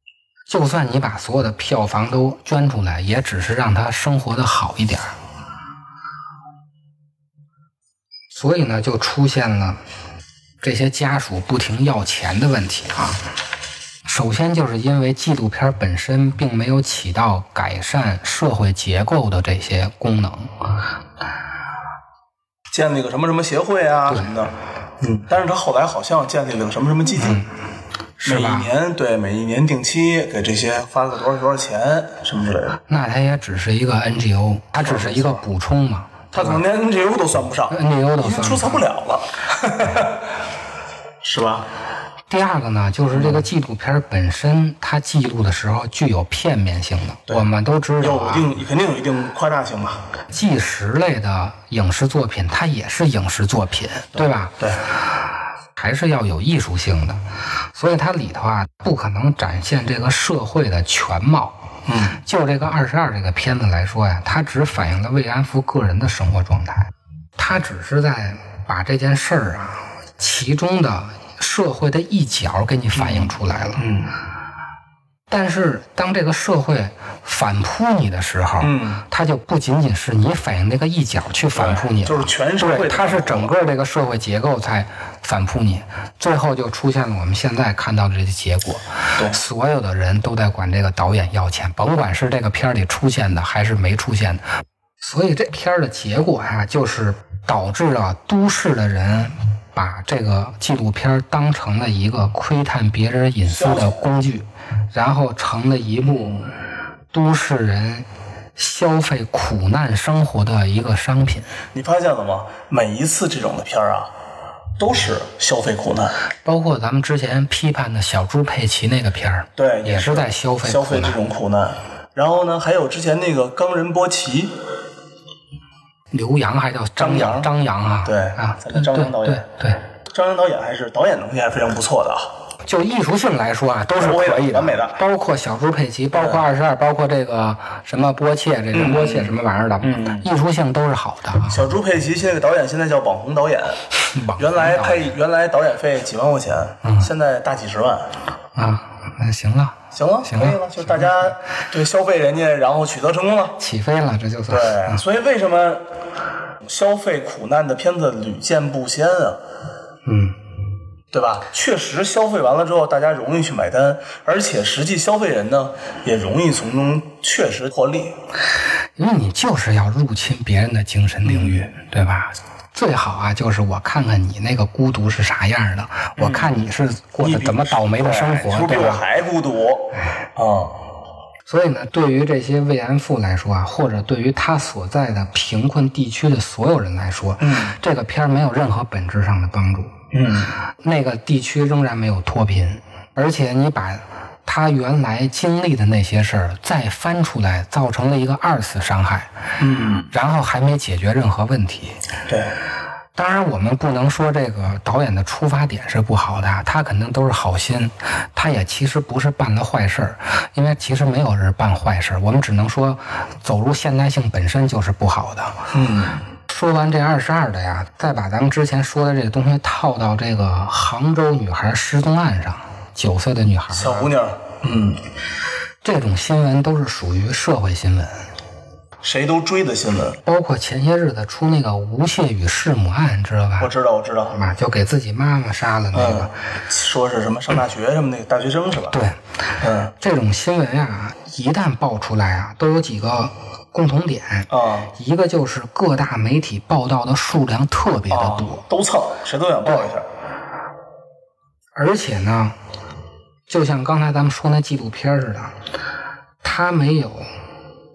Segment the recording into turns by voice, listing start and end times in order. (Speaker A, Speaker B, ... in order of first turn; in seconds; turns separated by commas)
Speaker A: 0.5-5.2, Speaker A: 8.3-9.8, Speaker A: 10.6-13.2, Speaker A: 14.1-20.5, Speaker B: 22.7-27.4, Speaker A: 27.2-27.5, Speaker A: 28.2-28.7, Speaker B: 28.2-32.8, Speaker A: 32.9-36.6, Speaker B: 34.8-35.5, Speaker B: 36.3-40.2, Speaker A: 37.7-38.8, Speaker B: 41.2-41.7, Speaker A: 42.3-48.5, Speaker B: 43.1-43.5, Speaker B: 47.3-50.0, Speaker A: 50.3-54.6, Speaker B: 54.1-54.8, Speaker A: 55.8-57.2, Speaker A: 57.7-61.6, Speaker B: 61.9-62.2, Speaker A: 62.2-73.8, Speaker B: 73.0-74.1, Speaker A: 75.3-94.4, Speaker B: 78.6-79.0, Speaker B: 81.5-83.5, Speaker A: 95.0-106.4, Speaker B: 103.5-104.1, Speaker B: 106.0-106.5, Speaker A: 107.1-108.1, Speaker A: 108.6-111.5, Speaker B: 111.7-114.1, Speaker B: 114.8-116.2, Speaker A: 116.5-121.2, Speaker B: 119.6-124.6, Speaker A: 126.1-129.8, Speaker B: 127.0-127.5, Speaker B: 128.1-129.5, Speaker B: 130.1-132.3, Speaker A: 132.7-141.6, Speaker B: 134.0-135.0, Speaker B: 136.2-136.4, Speaker B: 138.7-140.3, Speaker B: 141.5-148.1, Speaker A: 144.1-145.1, Speaker A: 146.8-147.1, Speaker A: 148.6-151.3, Speaker B: 149.9-153.6, Speaker A: 153.6-155.0, Speaker B: 154.5-155.8, Speaker B: 156.6-159.4, Speaker A: 160.1-160.4, Speaker B: 161.1-168.2, Speaker A: 169.0-179.0, Speaker B: 171.2-171.7, Speaker B: 176.2-176.6, Speaker B: 177.2-180.8, Speaker A: 181.5-189.9, Speaker B: 187.4-187.8, Speaker B: 190.1-190.5, Speaker A: 190.8-199.3, Speaker B: 199.6-200.1, Speaker A: 200.1-202.0, Speaker B: 202.3-202.5, Speaker A: 203.2-215.7, Speaker B: 215.7-216.2, Speaker A: 216.5-224.1, Speaker B: 223.7-225.0, Speaker A: 225.8-228.2, Speaker B: 229.0-230.2, Speaker A: 230.3-233.7, Speaker B: 233.6-234.4, Speaker A: 234.3-236.3, Speaker B: 235.9-239.0, Speaker A: 238.9-239.2, Speaker B: 239.6-239.9, Speaker A: 240.0-248.7, Speaker B: 244.5-244.9, Speaker B: 248.1-250.1, Speaker A: 251.8-252.6, Speaker A: 253.5-255.6, Speaker A: 256.4-257.3